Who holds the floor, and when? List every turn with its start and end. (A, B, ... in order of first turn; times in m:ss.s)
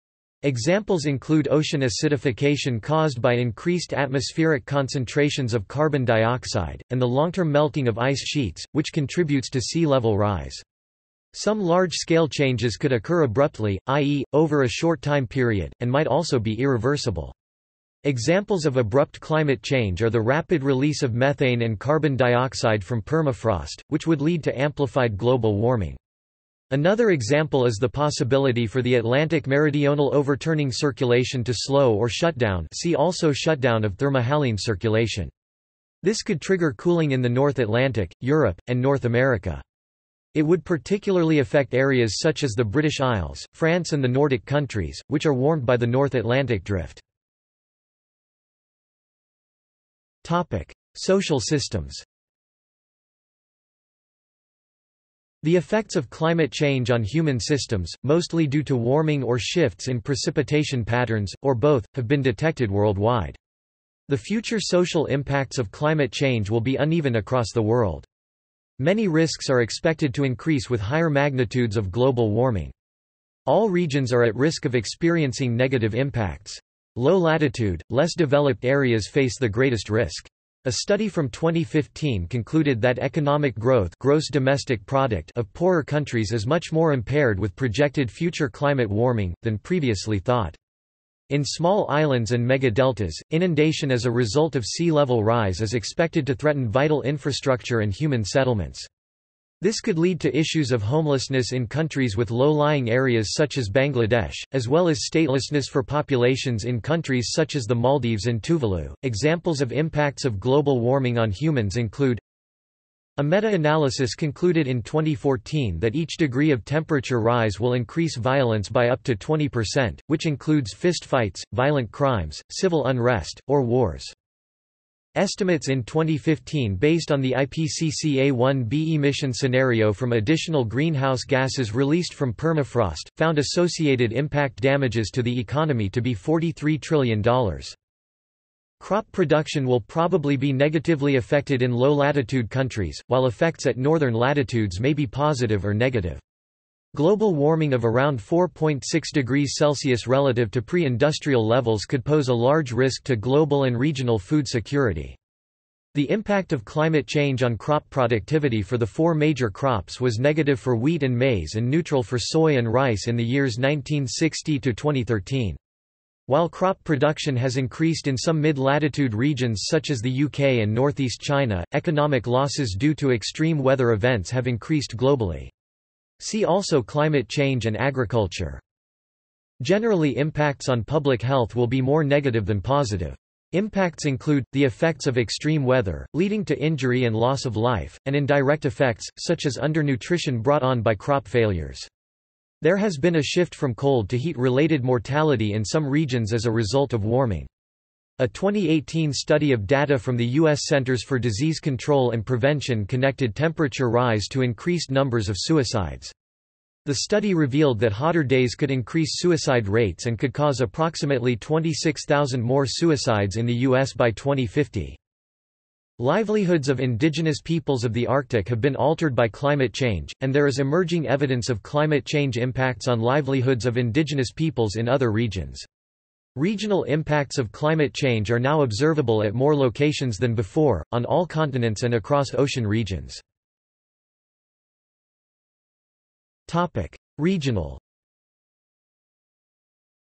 0:00.4-0:10.6 A
0:11.3-0:17.3 A
0:18.0-0:26.0 A
0:26.7-0:35.3 A
0:36.0-0:39.6 A
0:40.3-0:47.0 A
0:50.2-0:52.1 A
0:55.4-1:03.4 A
1:04.1-1:08.1 A
1:08.8-1:12.7 A
1:13.5-1:30.6 A
1:31.3-1:38.9 A
1:39.6-1:52.2 A
1:53.2-2:04.2 A
2:05.2-2:17.8 A
2:18.8-2:26.2 A
2:26.9-2:35.2 A
2:35.9-2:45.6 A
2:46.3-2:55.5 A
2:56.2-2:58.6 A
2:59.6-3:11.9 A
3:12.6-3:17.5 A
3:18.2-3:26.1 A
3:26.8-3:35.0 A
3:36.0-3:45.7 A
3:46.4-3:53.2 A
3:56.5-3:57.8 A